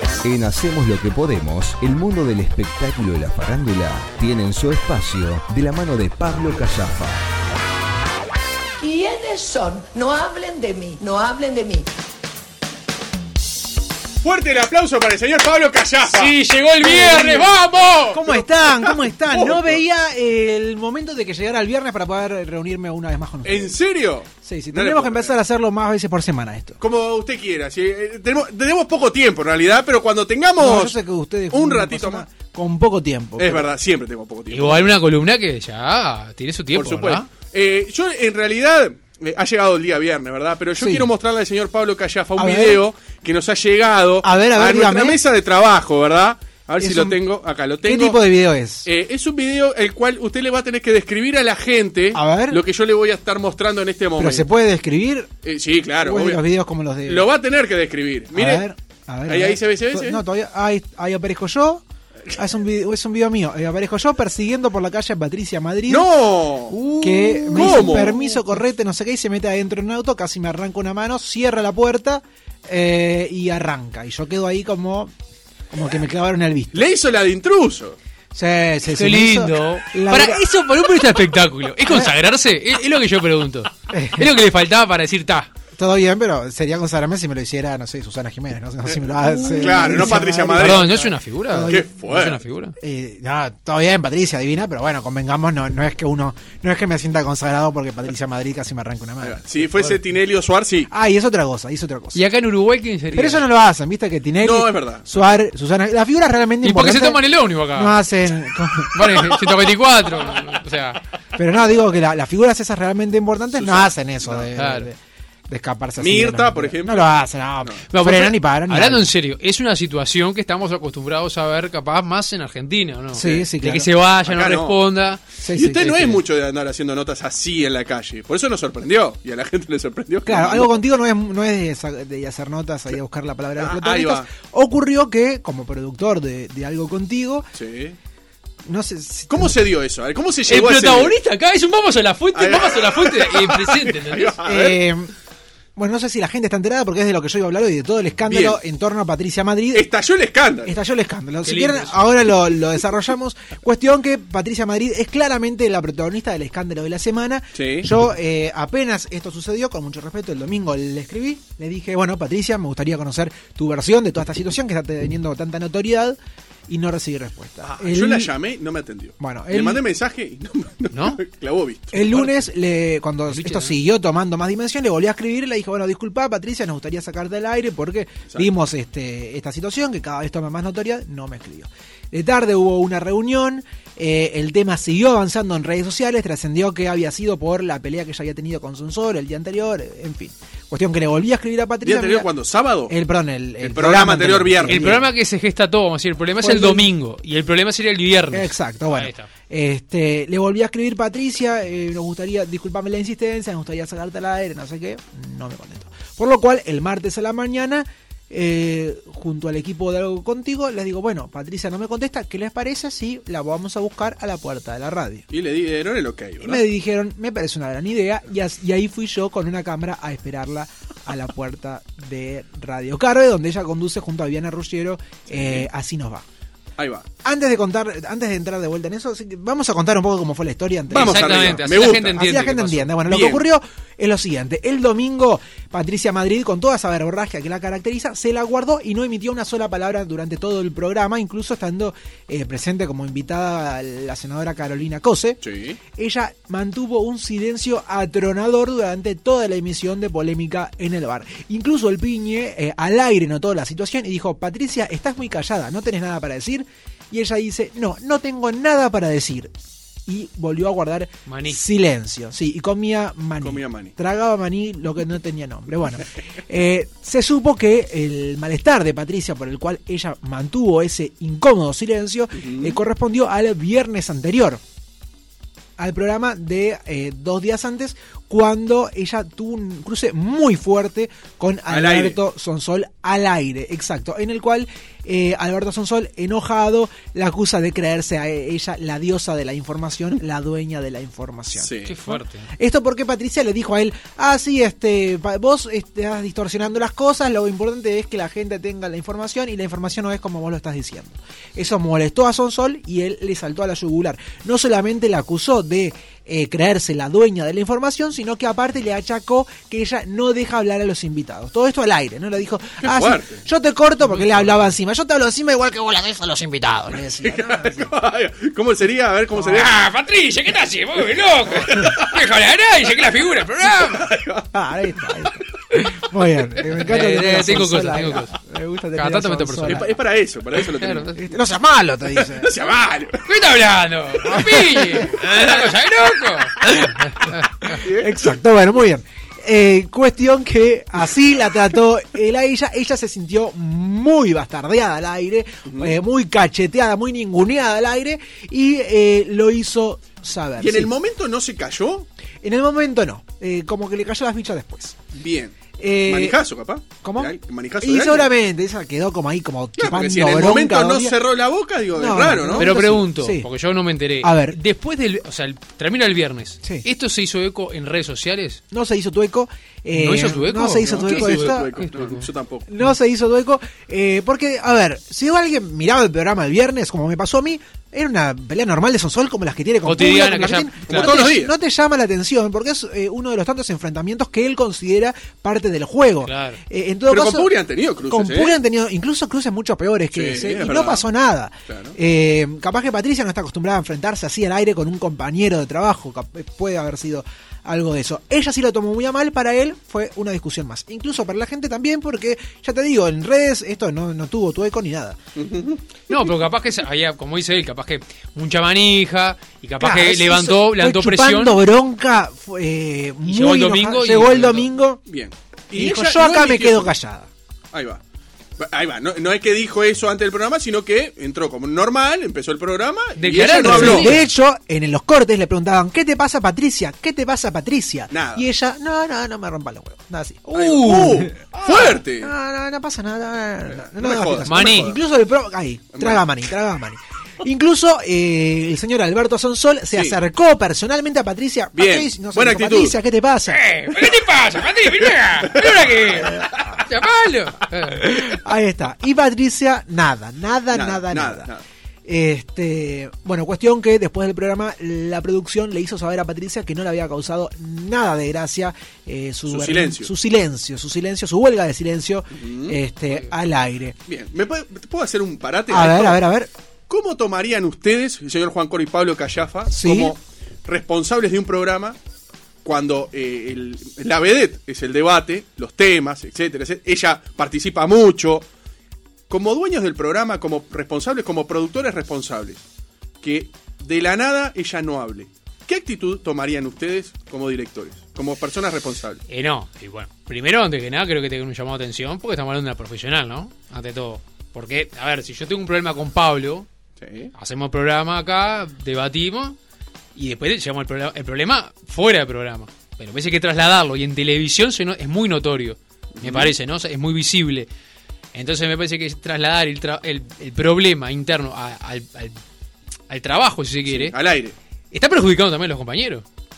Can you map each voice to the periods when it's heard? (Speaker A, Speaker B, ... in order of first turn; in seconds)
Speaker A: 0.2-7.2
Speaker B: 8.8-11.9
Speaker C: 14.2-16.3, 18.1-19.8, 23.4-25.4, 26.8-31.0, 31.5-32.3, 33.4-34.9, 36.7-48.2, 48.9-54.5, 55.4-56.5, 57.1-58.6, 59.3-60.2, 65.9-66.8, 67.5-68.2, 76.7-78.0, 88.9-91.0, 91.7-92.4, 99.2-100.9, 104.4-105.2, 113.6-114.5, 116.0-117.9, 123.2-123.5, 124.2-124.8, 125.5-130.8, 133.6-134.3, 137.6-138.0, 139.3-141.2, 142.3-144.8, 148.3-148.6, 149.7-150.7, 157.6-157.9, 167.8-172.3, 191.8-192.9, 193.6-194.9, 215.3-216.7, 225.3-225.7, 226.8-227.1, 230.9-232.2, 233.1-233.4, 245.4-245.8, 263.4-263.9, 272.4-272.8, 281.7-282.2, 291.6-291.9, 312.8-313.4, 317.2-319.7, 321.5-322.2, 323.9-324.5, 329.6-331.1, 332.1-333.3, 337.7-338.4, 345.7-346.0, 350.6-352.1, 355.1-358.3, 359.8-362.9, 370.8-372.7, 380.9-381.5, 387.1-388.6, 390.1-391.1, 391.7-392.0, 405.4-405.8, 415.1-416.9, 417.7-418.0, 418.6-424.2, 428.1-428.4, 430.5-432.3, 433.7-435.0, 435.9-436.2, 439.9-440.2, 441.8-443.0, 445.1-445.7, 450.7-451.6, 459.5-460.1, 462.3-462.8, 464.1-466.2, 466.9-472.0, 472.6-478.5, 479.3-482.6, 483.2-489.2, 497.0-497.3, 506.2-506.5, 513.9-514.6
Speaker D: 16.1-18.2, 34.5-37.3, 66.8-68.0, 78.9-85.5, 89.7-92.8, 102.2-103.5, 106.6-108.0, 108.9-111.0, 114.6-114.9, 117.9-125.2, 140.5-144.4, 151.4-152.0, 170.9-171.2, 173.3-173.8, 194.7-199.3, 230.9-232.9, 261.3-261.6, 291.9-292.5, 314.1-314.5, 319.4-324.1, 325.8-326.0, 326.6-328.3, 329.0-329.9, 330.8-331.2, 333.3-337.8, 362.6-368.6, 369.9-372.3, 379.8-381.2, 386.2-386.6, 406.1-411.6, 413.3-414.7, 423.2-424.3, 430.5-431.3, 434.4-434.9, 443.5-448.3, 489.3-496.7, 497.4-499.6, 500.2-507.7, 508.3-512.4, 513.1-514.1, 514.9-516.2
Speaker E: 16.8-17.5, 18.1-23.8, 24.4-26.8, 30.6-33.7, 40.8-41.1, 42.4-42.8, 44.2-45.2, 46.8-47.2, 47.8-48.9, 52.1-52.6, 54.2-55.3, 56.0-57.3, 58.3-61.8, 62.4-66.1, 66.9-75.1, 75.7-76.9, 78.3-80.5, 81.9-82.1, 83.9-84.3, 85.8-91.9, 92.8-100.0, 100.9-102.2, 103.1-109.1, 111.4-115.0, 115.5-119.1, 123.1-123.9, 125.4-126.2, 130.3-137.5, 138.7-139.6, 144.4-145.1, 145.8-149.9, 150.7-168.3, 169.2-169.8, 171.9-192.3, 192.9-195.1, 196.4-196.9, 198.3-215.2, 216.4-226.2, 227.2-245.4, 245.9-259.5, 260.1-274.6, 275.8-317.9, 324.5-329.9, 331.1-332.5, 334.3-335.2, 337.7-350.9, 352.4-355.0, 355.8-356.4, 357.0-361.2, 361.9-363.5, 364.2-364.6, 366.6-366.9, 368.7-371.8, 372.7-387.5, 388.1-405.2, 409.8-415.0, 415.7-417.3, 423.5-443.7, 446.1-446.8, 447.9-451.5, 452.1-464.0, 465.7-466.5, 469.7-470.1